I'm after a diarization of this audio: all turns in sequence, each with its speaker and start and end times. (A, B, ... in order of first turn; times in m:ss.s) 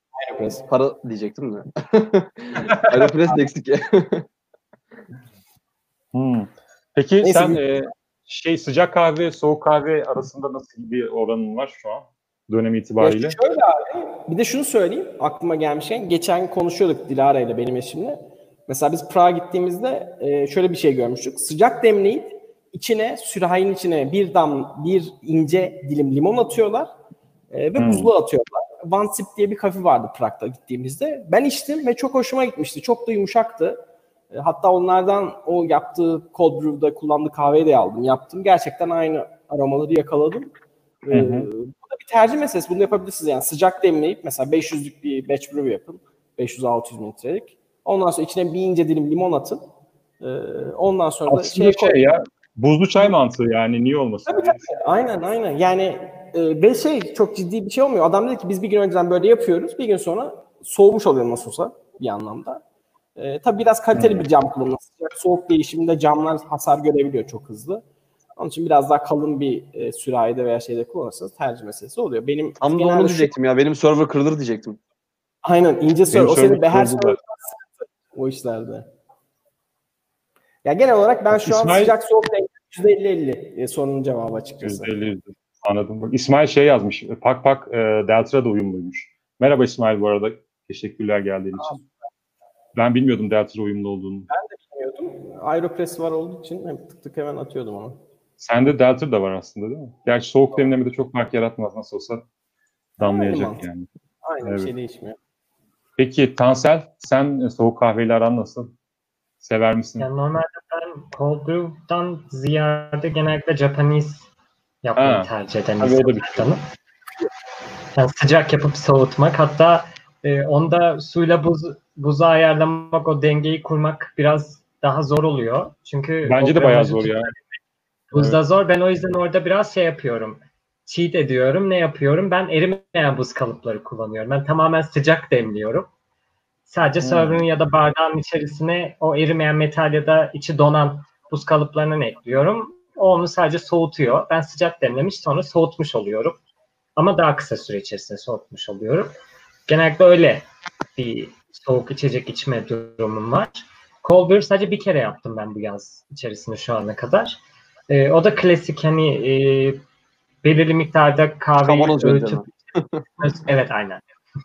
0:00.2-0:00.6 A
0:00.7-0:04.2 B
0:02.6-0:03.1 C
0:06.1-0:13.4 C
0:07.2-0:07.6 A
0:13.0-0:26.9 A
0:27.5-0:40.5 A
0:27.8-0:28.1 C
0:41.0-0:49.6 A
0:41.1-0:41.5 C
0:50.2-0:52.0 A
0:51.3-0:54.6 C
0:54.3-1:02.6 A
1:03.2-1:07.8 A
1:03.9-1:04.2 C
1:08.4-1:13.3 A
1:12.6-1:14.8 B
1:15.4-1:18.9 A
1:16.1-1:17.2 C
1:20.6-1:24.9 A
1:21.3-1:22.0 C
1:24.6-1:31.8 C
1:32.7-1:34.3 C
1:34.3-1:38.0 A
1:38.4-1:42.2 C
1:43.0-1:43.7 A
1:43.0-1:43.9 C
1:44.2-1:45.2 A
1:44.4-1:44.7 C
1:46.0-1:48.7 C
1:49.4-1:50.1 C
1:50.0-1:54.2 D
1:54.8-1:56.6 D
1:55.0-1:55.3 C
1:55.8-1:56.6 C
1:57.9-2:07.4 D
2:06.2-2:07.3 C
2:08.1-2:15.9 D
2:08.1-2:08.4 C
2:16.7-2:26.4 D
2:17.0-2:17.4 C
2:27.0-2:29.1 D
2:29.7-2:30.4 D
2:31.0-2:39.8 D
2:40.4-2:42.5 D
2:41.6-2:43.0 B
2:43.2-2:44.0 D